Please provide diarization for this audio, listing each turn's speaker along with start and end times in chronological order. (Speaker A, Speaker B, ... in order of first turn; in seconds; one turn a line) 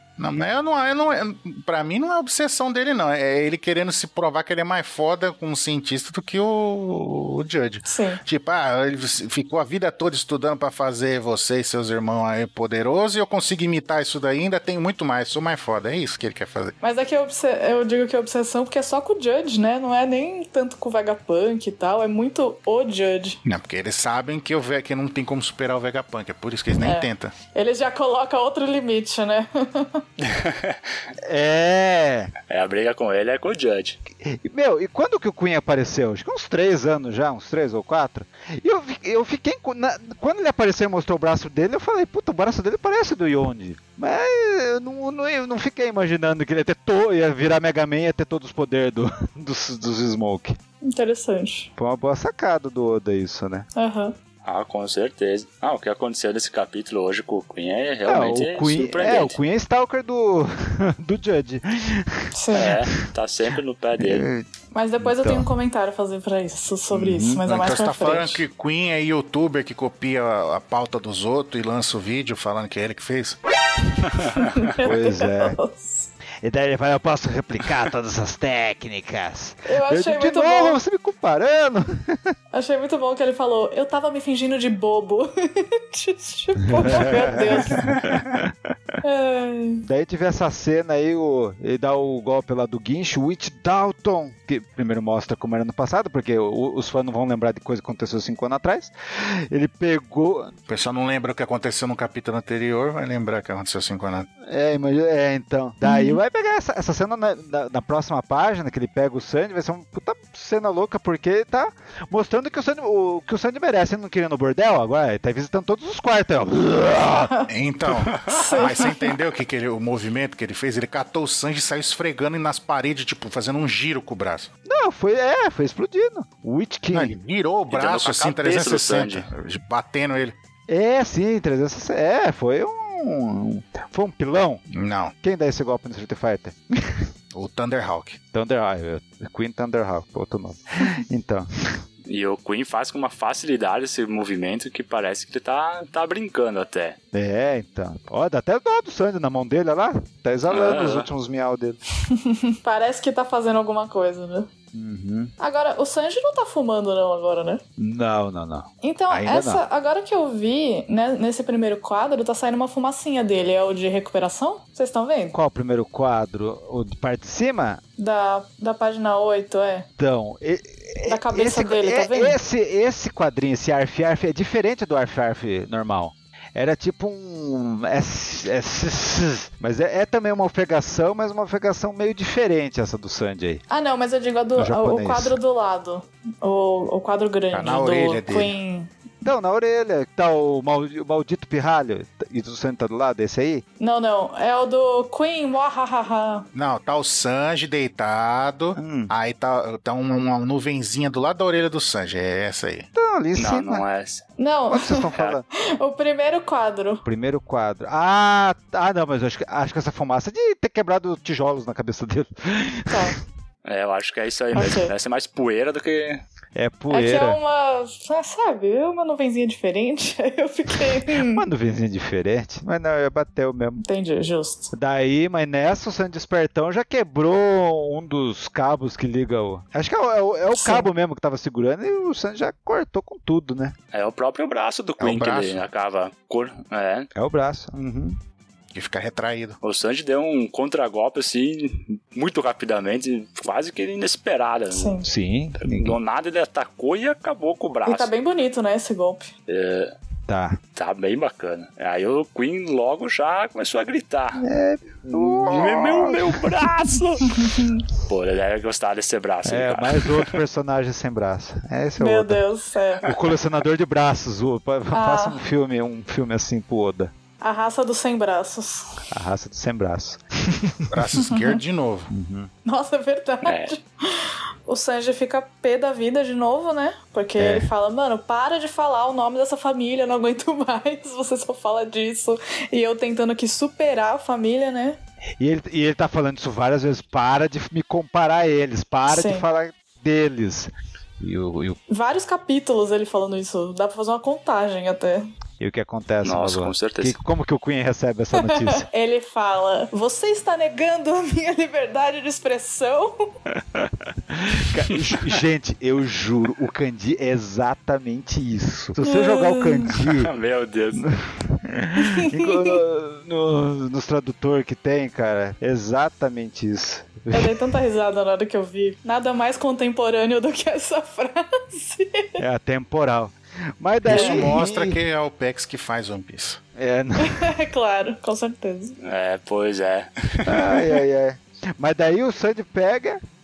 Speaker A: 0.2-16.7
Speaker B: 7.8-8.2
Speaker B: 16.8-23.4
Speaker A: 23.4-27.3
Speaker B: 26.8-30.0
Speaker C: 30.2-30.8
Speaker D: 31.2-32.3
Speaker C: 32.5-34.0
Speaker D: 34.2-50.6
Speaker B: 50.8-51.7
Speaker D: 51.8-53.7
Speaker B: 53.8-54.1
Speaker C: 54.4-59.4
Speaker D: 58.0-62.3
Speaker B: 62.3-62.8
Speaker C: 62.5-64.3
Speaker D: 64.0-64.5
Speaker B: 64.7-68.4
Speaker D: 65.0-65.5
Speaker D: 66.9-67.4
Speaker A: 67.4-73.4
Speaker B: 74.4-76.1
Speaker D: 74.8-75.6
Speaker D: 76.4-82.3
Speaker B: 79.6-80.8
Speaker B: 82.5-87.9
Speaker D: 86.7-88.7
Speaker C: 87.9-88.2
Speaker B: 89.0-89.8
Speaker D: 89.8-100.5
Speaker A: 100.7-104.3
Speaker D: 104.4-117.3
Speaker B: 105.8-106.2
Speaker A: 117.5-124.5
Speaker B: 118.3-119.1
Speaker D: 124.7-127.1
Speaker A: 126.9-130.3
Speaker C: 127.7-129.3
Speaker D: 130.7-134.6
Speaker A: 134.7-135.1
Speaker D: 135.2-137.1
Speaker A: 137.3-138.2
Speaker D: 138.3-141.8
Speaker C: 142.1-147.0
Speaker D: 147.1-151.8
Speaker C: 150.5-151.1
Speaker B: 152.1-154.5
Speaker D: 154.7-155.3
Speaker B: 155.4-157.6
Speaker D: 157.8-159.6
Speaker B: 158.8-165.4
Speaker D: 165.3-167.8
Speaker B: 168.0-169.9
Speaker D: 170.0-183.6
Speaker B: 171.1-172.4
Speaker B: 183.7-188.9
Speaker D: 184.6-185.4
Speaker A: 187.5-188.5
Speaker D: 189.2-193.6
Speaker B: 193.8-196.5
Speaker A: 196.5-202.9
Speaker D: 198.8-199.1
Speaker D: 202.9-203.8
Speaker C: 203.3-204.2
Speaker B: 204.4-207.0
Speaker D: 204.7-205.4
Speaker D: 207.0-213.2
Speaker B: 212.9-213.2
Speaker C: 213.6-216.2
Speaker B: 214.5-214.9
Speaker D: 216.5-217.4
Speaker B: 216.9-221.4
Speaker D: 221.1-223.8
Speaker B: 223.8-224.7
Speaker D: 224.7-233.7
Speaker B: 230.5-230.9
Speaker C: 233.9-237.1
Speaker A: 235.0-235.6
Speaker D: 237.1-238.2
Speaker A: 238.7-239.6
Speaker C: 239.6-244.9
Speaker B: 244.7-245.1
Speaker D: 245.0-246.0
Speaker C: 245.6-248.1
Speaker B: 247.8-249.3
Speaker C: 249.5-249.9
Speaker D: 250.3-250.6
Speaker C: 250.7-254.5
Speaker D: 254.4-256.7
Speaker C: 255.1-257.4
Speaker B: 257.3-257.8
Speaker C: 258.0-260.4
Speaker D: 259.4-262.4
Speaker B: 262.0-263.1
Speaker D: 263.0-267.1
Speaker B: 264.9-265.4
Speaker B: 267.4-269.0
Speaker D: 269.1-270.9
Speaker A: 270.9-272.1
Speaker D: 272.1-272.5
Speaker B: 272.6-285.0
Speaker C: 273.4-273.7
Speaker D: 277.4-277.7
Speaker D: 285.4-291.8
Speaker B: 289.1-289.4
Speaker B: 291.9-295.3
Speaker D: 295.6-298.9
Speaker C: 296.2-297.2
Speaker B: 298.4-303.3
Speaker D: 303.7-310.3
Speaker B: 309.0-309.9
Speaker C: 310.0-311.1
Speaker D: 311.0-317.7
Speaker B: 312.0-312.8
Speaker B: 317.3-322.4
Speaker D: 322.4-325.0
Speaker A: 324.0-326.6
Speaker B: 324.1-324.5
Speaker D: 326.8-327.5
Speaker B: 327.2-329.0
Speaker C: 329.0-330.6
Speaker D: 330.4-333.2